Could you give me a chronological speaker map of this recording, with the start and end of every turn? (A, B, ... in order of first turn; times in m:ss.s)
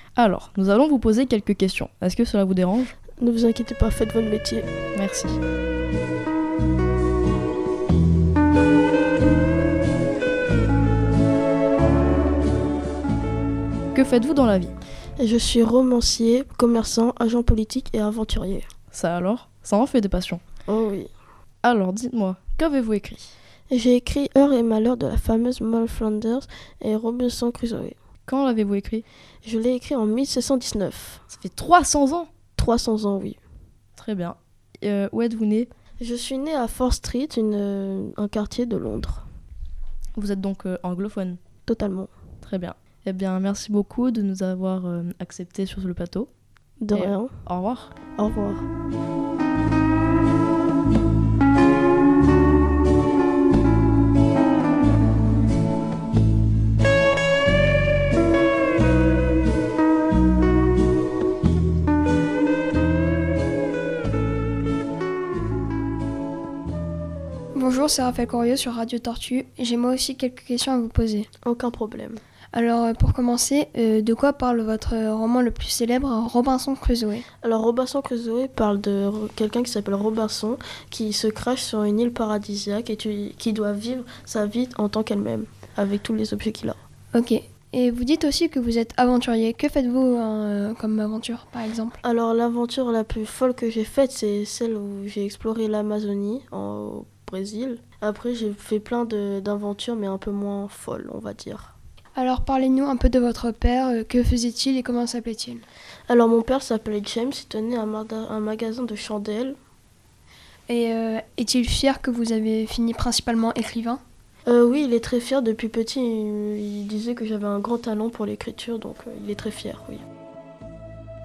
0:00.2-0:02.9 A
0:03.2-0:04.7 B
0:04.9-0:05.4 A
0:13.9-0:14.7 A
0:15.2-0:18.7 B
0:18.9-0:20.4 A
0:20.7-0:21.1 B
0:21.6-0:23.3 A
0:23.7-0:28.0 B
0:28.3-0:29.0 A
0:29.4-0:31.2 B
0:31.3-0:32.3 A
0:32.6-0:33.4 B
0:34.0-0:35.7 A
0:36.0-0:39.2 B
0:40.2-0:41.4 A
0:41.6-0:42.1 B
0:42.4-0:46.3 A
0:46.8-0:47.4 B
0:46.9-0:47.9 A
0:48.2-0:48.7 B
1:07.5-1:11.3 C
1:11.4-1:12.2 B
1:12.5-1:17.2 C
1:17.4-1:26.8 B
1:27.1-1:32.0 C
1:32.0-1:41.7 B
1:42.1-1:45.6 C
1:46.1-1:49.6 B
1:50.7-1:54.0 C
1:54.5-2:00.0 B